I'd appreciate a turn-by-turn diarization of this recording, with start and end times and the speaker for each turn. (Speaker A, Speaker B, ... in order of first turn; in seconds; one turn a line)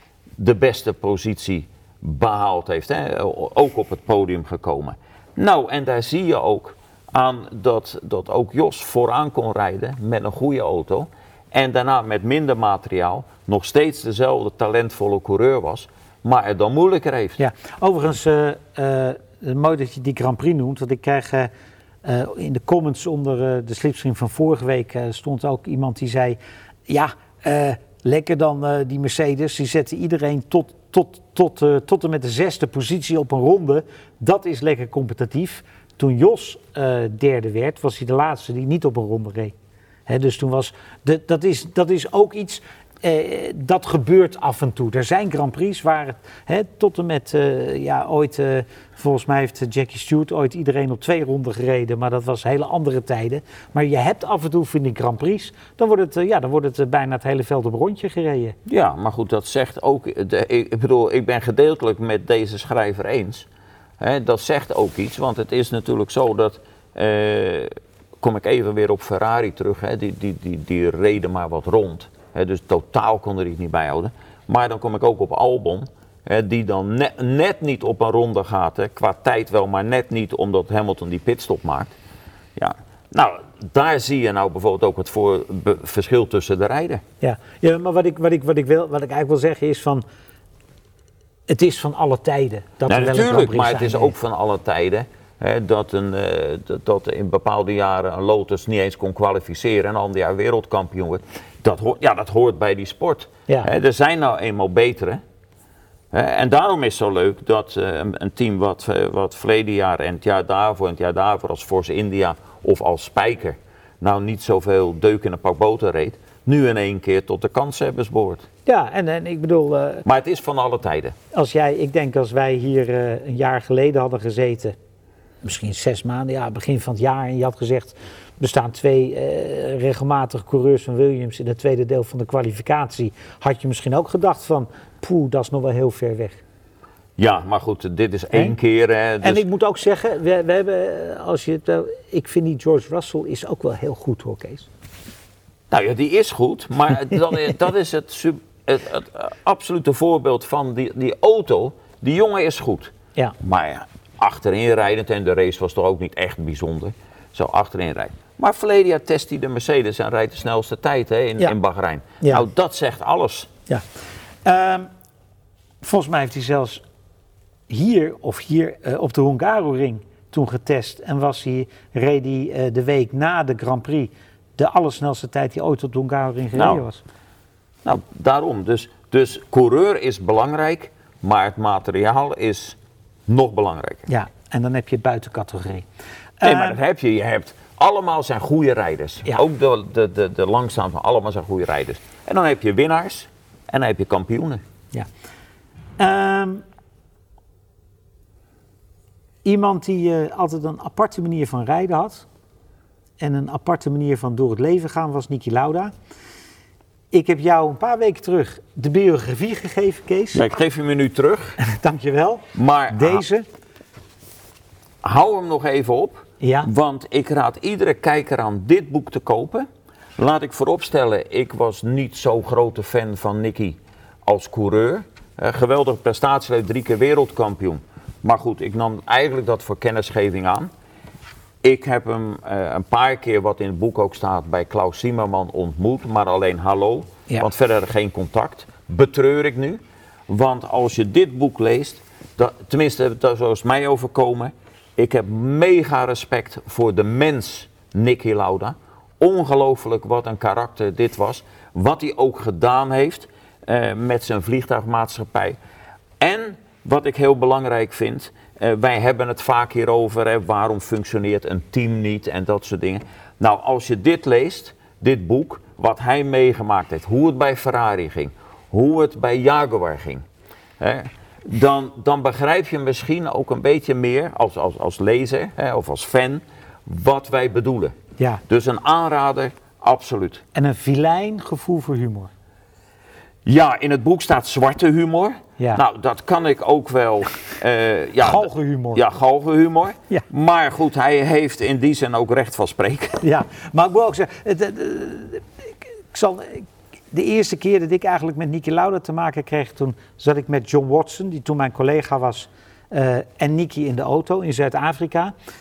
Speaker A: 0.4-17.4
Speaker B: 17.4-21.5
Speaker B: 22.0-39.5
Speaker B: 40.1-58.6
Speaker A: 58.7-63.5
Speaker A: 64.0-81.9
Speaker A: 82.6-87.0
Speaker B: 87.2-90.0
Speaker B: 91.5-94.1
Speaker A: 92.9-105.2
Speaker A: 106.1-118.5
Speaker B: 118.7-120.0
Speaker A: 120.0-121.2
Speaker B: 121.3-124.8
Speaker B: 125.4-136.4
Speaker A: 137.2-139.4
Speaker B: 139.2-144.7
Speaker A: 145.7-163.5
Speaker B: 162.2-162.5
Speaker B: 164.4-164.9
Speaker B: 165.8-166.8
Speaker B: 167.7-177.0
Speaker A: 176.6-176.8
Speaker A: 177.8-182.8
Speaker A: 183.3-184.1
Speaker B: 184.1-185.9
Speaker B: 186.4-186.8
Speaker A: 186.4-194.6
Speaker B: 196.0-196.6
Speaker B: 199.4-202.3
Speaker B: 203.2-205.9
Speaker B: 207.1-210.5
Speaker A: 210.3-211.6
Speaker B: 211.6-213.5
Speaker A: 212.6-213.2
Speaker A: 215.0-219.7
Speaker B: 216.4-216.7
Speaker A: 220.2-230.7
Speaker A: 231.6-255.6
Speaker A: 256.2-270.2
Speaker A: 270.8-280.4
Speaker B: 280.6-282.3
Speaker A: 283.5-293.2
Speaker B: 288.2-289.0
Speaker B: 293.2-305.3